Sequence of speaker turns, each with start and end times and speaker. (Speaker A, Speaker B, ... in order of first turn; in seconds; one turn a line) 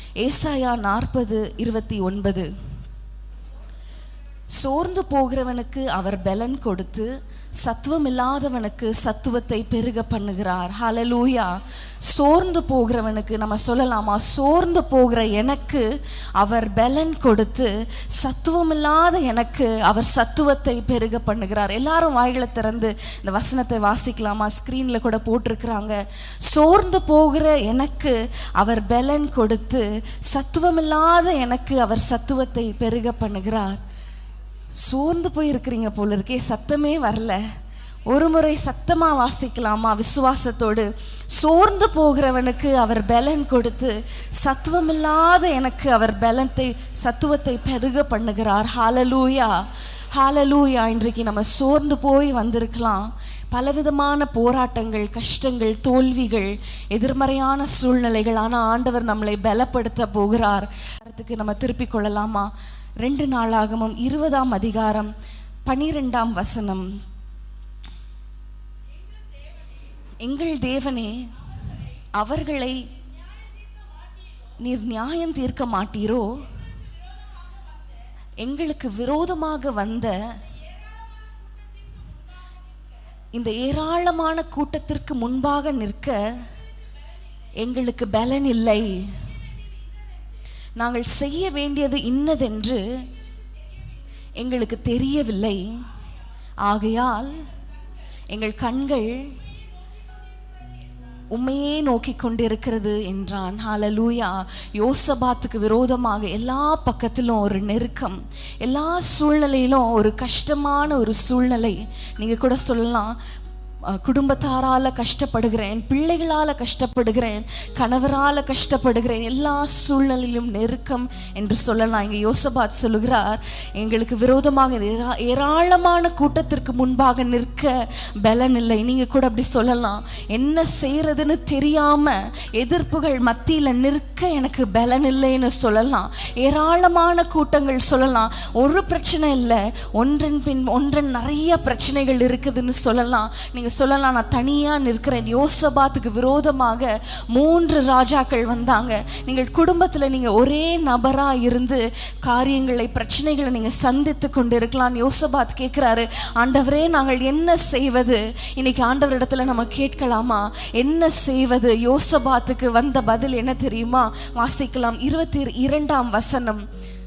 Speaker A: 0.2-2.5
Speaker A: 4.5-7.1
Speaker A: 7.6-15.8
Speaker A: 16.4-33.8
Speaker A: 34.8-37.4
Speaker A: 38.1-49.5
Speaker A: 50.1-62.5
Speaker A: 63.0-65.1
Speaker A: 65.7-66.9
Speaker A: 70.2-71.3
Speaker A: 72.1-72.8
Speaker A: 74.6-76.5
Speaker A: 78.4-80.2
Speaker A: 83.3-86.2
Speaker A: 87.6-89.2
Speaker A: 90.8-92.8
Speaker A: 94.4-95.6
Speaker A: 96.7-97.3
Speaker A: 98.3-99.3
Speaker A: 101.3-113.2
Speaker A: 113.9-166.6